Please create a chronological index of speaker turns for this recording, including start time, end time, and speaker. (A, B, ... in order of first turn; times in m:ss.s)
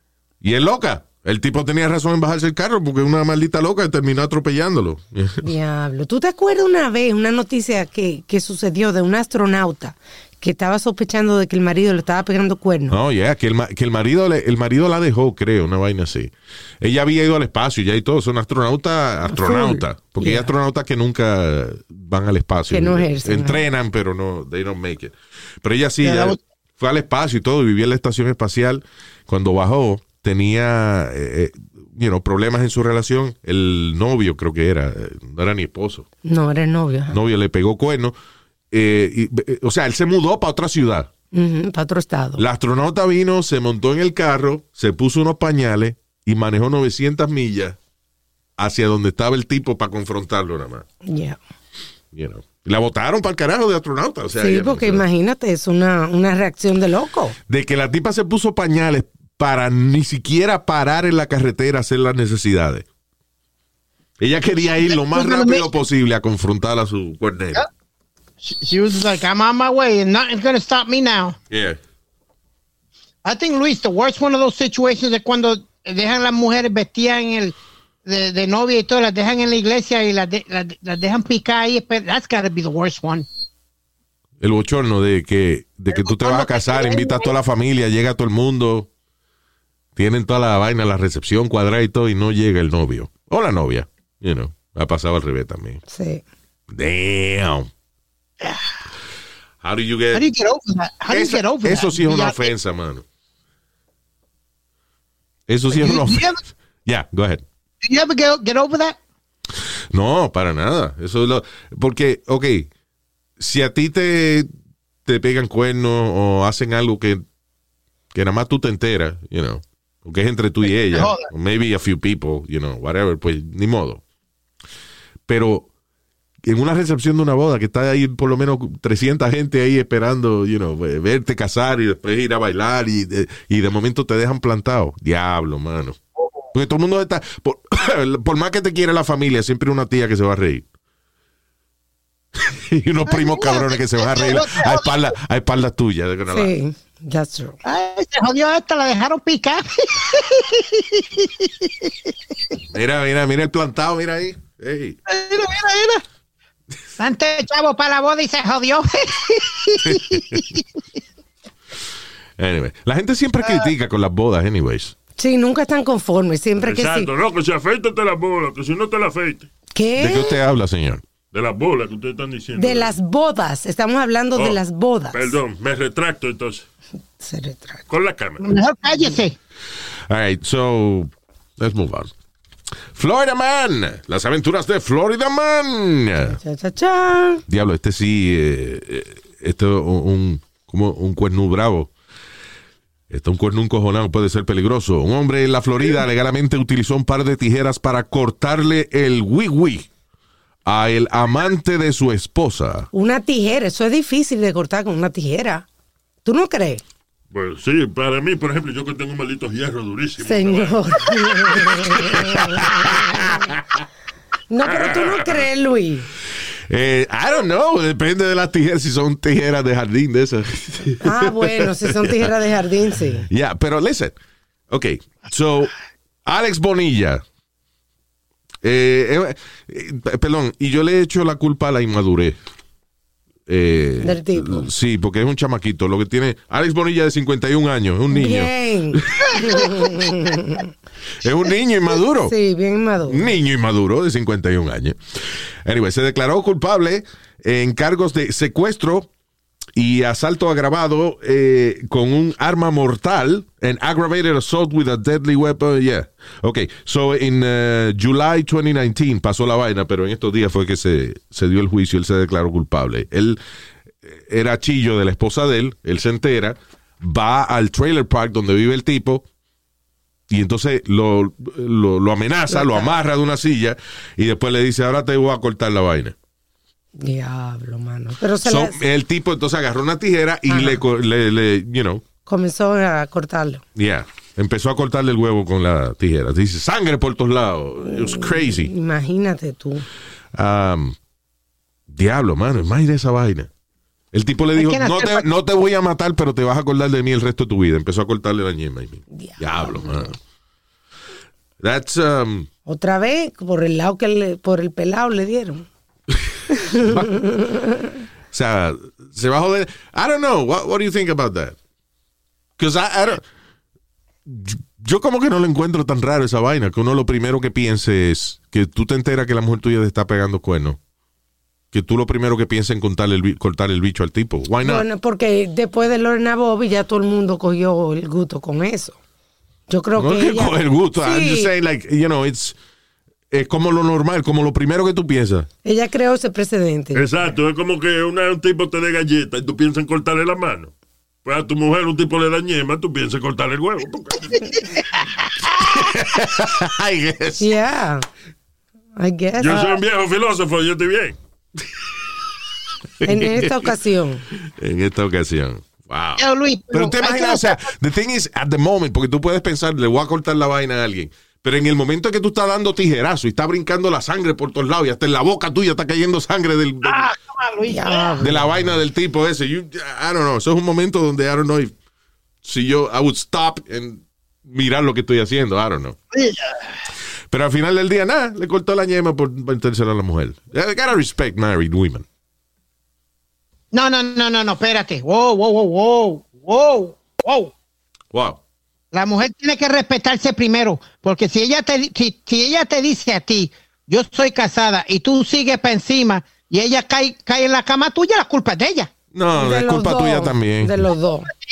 0:00.4-0:05.5 A
0:05.4-0:13.0 B
0:12.9-0:36.1 A
0:19.3-0:20.5 B
0:22.7-0:23.6 B
0:26.0-0:26.4 C
0:36.2-0:37.2 B
0:37.1-0:38.2 A
0:38.7-0:41.1 A
0:41.3-0:42.4 B
0:42.4-0:47.8 A
0:48.6-0:50.8 A
0:51.0-0:51.4 B
0:52.1-0:55.0 A
0:54.4-0:57.4 B
0:57.5-1:02.8 A
1:04.2-1:07.6 A
1:04.8-1:05.7 C
1:08.4-1:11.4 C
1:11.5-1:11.8 A
1:13.2-1:23.3 C
1:24.4-1:28.9 A
1:25.9-1:27.3 C
1:30.0-1:35.8 A
1:35.9-1:36.2 B
1:36.7-1:37.7 A
1:39.6-1:40.3 A
1:40.1-1:42.5 C
1:41.1-1:43.0 A
1:45.5-1:46.3 A
1:45.7-1:46.4 C
1:46.9-1:47.4 A
1:47.8-1:49.0 C
1:49.9-1:52.7 A
1:53.4-1:54.5 A
1:55.0-1:57.2 A
1:58.1-2:04.0 A
2:00.9-2:01.3 C
2:05.3-2:05.7 A
2:06.4-2:16.0 A
2:16.5-2:20.6 A
2:22.4-2:26.5 A
2:23.1-2:25.0 C
2:26.3-2:27.6 B
2:27.6-2:31.9 C
2:32.7-2:35.0 A
2:35.1-2:36.0 C
2:37.0-2:40.6 C
2:39.9-2:40.4 A
2:42.4-2:45.0 A
2:45.2-2:47.1 B
2:46.6-2:49.5 D
2:49.7-2:50.4 B
2:50.0-2:51.0 A
2:51.3-2:52.9 D
2:52.6-2:55.4 B
2:54.4-2:54.6 D
2:55.1-2:56.6 D
2:57.2-2:57.8 B
2:57.9-2:58.4 D
2:58.4-2:59.4 C
3:00.1-3:02.1 A
3:02.9-3:06.4 A
3:06.2-3:07.4 B
3:07.5-3:11.9 A
3:13.1-3:19.9 A
3:20.7-3:22.9 A
3:22.9-3:25.7 B
3:26.2-3:26.8 B
3:27.3-3:31.8 D
3:30.2-3:33.4 B
3:32.6-3:33.8 A
3:34.5-3:36.1 B
3:34.7-3:35.1 D
3:36.7-3:42.3 A
3:41.0-3:43.3 B
3:43.3-3:44.2 A
3:44.7-3:45.7 A
3:46.2-3:47.2 A
3:48.6-3:52.4 A
3:53.5-3:59.8 A
3:54.0-3:54.7 B
3:58.1-4:00.7 B
4:01.2-4:02.4 A
4:02.2-4:03.3 B
4:03.1-4:05.0 A
4:05.6-4:09.1 A
4:09.8-4:23.4 A
4:24.0-4:29.2 A
4:30.3-4:36.2 A
4:32.5-4:32.9 B
4:37.0-4:38.8 B
4:38.4-4:42.0 A
4:40.5-4:40.8 B
4:42.3-4:43.6 B
4:43.8-4:48.7 A
4:47.9-4:49.9 B
4:50.3-4:51.0 A
4:51.9-4:53.5 A
4:54.1-5:00.2 A
4:54.6-4:55.3 C
4:59.1-4:59.8 B
5:01.6-5:02.5 A
5:02.7-5:05.7 B
5:06.5-5:08.0 B
5:06.8-5:07.1 A
5:08.3-5:11.6 A
5:12.6-5:13.2 A
5:14.3-5:20.8 A
5:21.7-5:24.9 A
5:24.6-5:29.0 B
5:29.7-5:31.5 B
5:30.0-5:32.6 A
5:33.3-5:35.5 A
5:35.6-5:37.1 B
5:36.9-5:40.7 D
5:41.2-5:44.7 D
5:45.6-5:47.5 A
5:47.4-5:48.1 B
5:49.0-5:49.8 B
5:49.4-5:51.2 D
5:53.0-5:53.7 A
5:53.0-5:54.2 B
5:54.4-6:07.1 A
5:56.2-5:57.6 C
6:06.8-6:08.2 C
6:07.7-6:08.5 B
6:08.2-6:11.7 A
6:12.4-6:16.0 A
6:16.1-6:16.6 C
6:17.3-6:22.0 A
6:23.7-6:27.5 C
6:28.1-6:28.4 A
6:28.9-6:38.9 C
6:39.1-6:40.9 A
6:39.3-6:41.3 B